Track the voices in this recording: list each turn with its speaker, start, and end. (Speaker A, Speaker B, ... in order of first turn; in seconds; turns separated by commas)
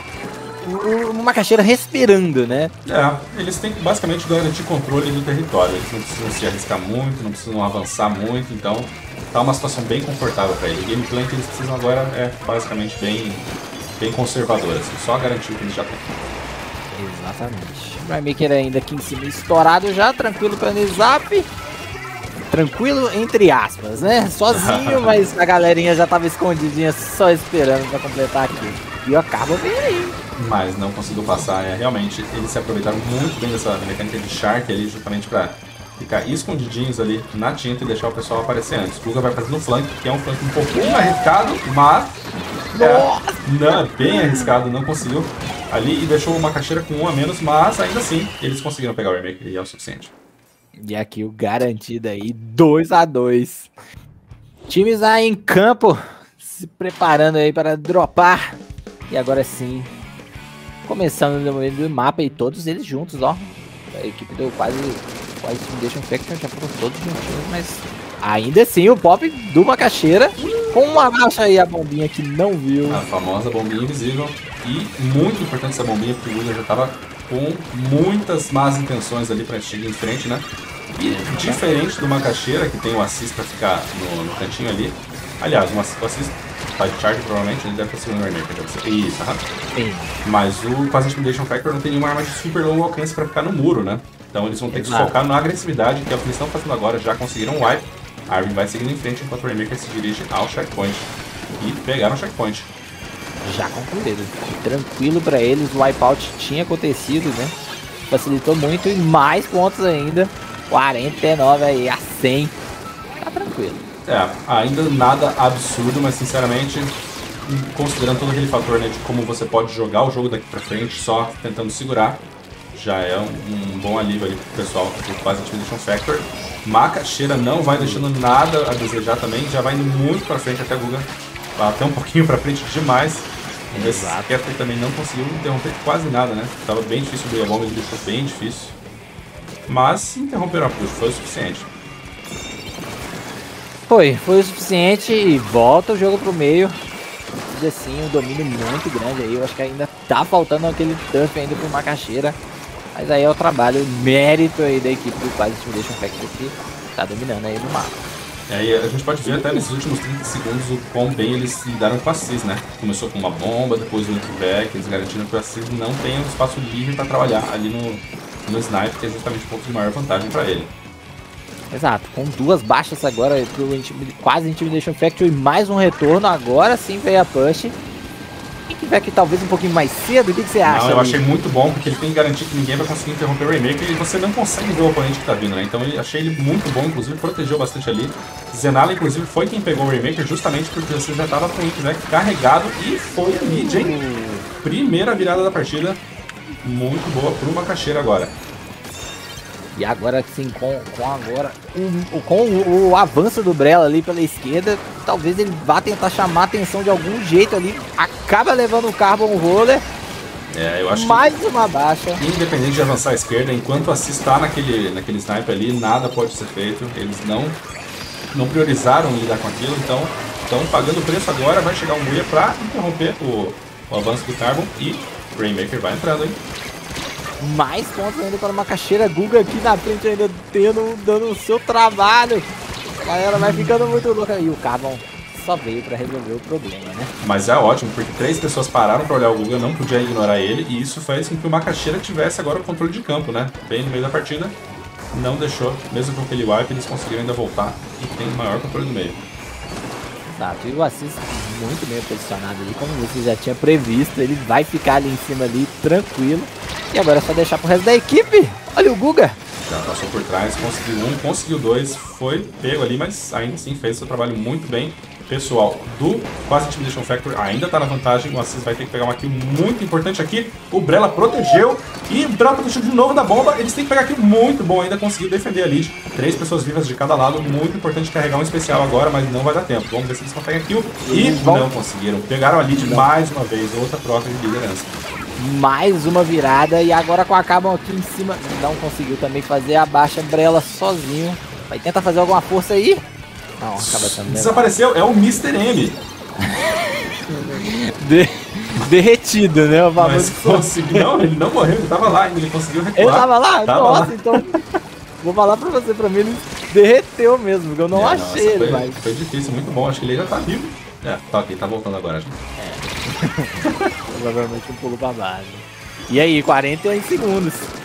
Speaker A: 0.6-2.7, Speaker B: 2.8-16.1, Speaker A: 16.9-21.5, Speaker A: 22.5-30.2, Speaker B: 24.5-25.2, Speaker B: 30.4-42.2, Speaker A: 42.7-44.5, Speaker B: 42.8-50.1, Speaker A: 50.8-53.7, Speaker A: 54.7-58.6, Speaker A: 59.1-59.9, Speaker A: 60.8-73.0, Speaker B: 70.4-71.0, Speaker B: 72.9-89.4, Speaker A: 81.0-81.7, Speaker A: 89.7-90.1, Speaker B: 90.2-102.7, Speaker A: 94.7-95.2, Speaker A: 103.4-107.5, Speaker A: 108.1-112.6, Speaker A: 113.2-113.8, Speaker B: 114.0-138.8, Speaker A: 127.7-128.0, Speaker A: 133.7-134.3, Speaker B: 139.7-141.7, Speaker A: 143.9-146.8, Speaker A: 147.5-152.4, Speaker A: 152.9-158.0, Speaker B: 158.5-170.7, Speaker A: 159.2-159.6, Speaker A: 171.7-177.8, Speaker A: 178.7-181.2, Speaker B: 180.6-194.0, Speaker A: 193.3-194.4, Speaker B: 194.6-196.0, Speaker B: 196.6-198.3, Speaker A: 199.7-209.8, Speaker B: 210.5-211.2, Speaker A: 210.9-212.2, Speaker B: 212.2-217.6, Speaker B: 218.3-226.4, Speaker A: 227.4-237.1, Speaker B: 233.3-234.0, Speaker B: 237.2-244.6, Speaker B: 245.1-249.2, Speaker A: 250.3-259.4, Speaker B: 259.6-284.9, Speaker A: 281.0-281.7, Speaker A: 282.8-283.1, Speaker A: 285.4-293.0, Speaker A: 293.6-294.7, Speaker B: 293.8-296.0, Speaker A: 296.4-301.1, Speaker B: 300.0-304.4, Speaker A: 302.9-304.5, Speaker A: 305.2-309.0, Speaker B: 307.9-312.4, Speaker A: 312.6-313.6, Speaker B: 313.6-313.9, Speaker A: 314.1-317.7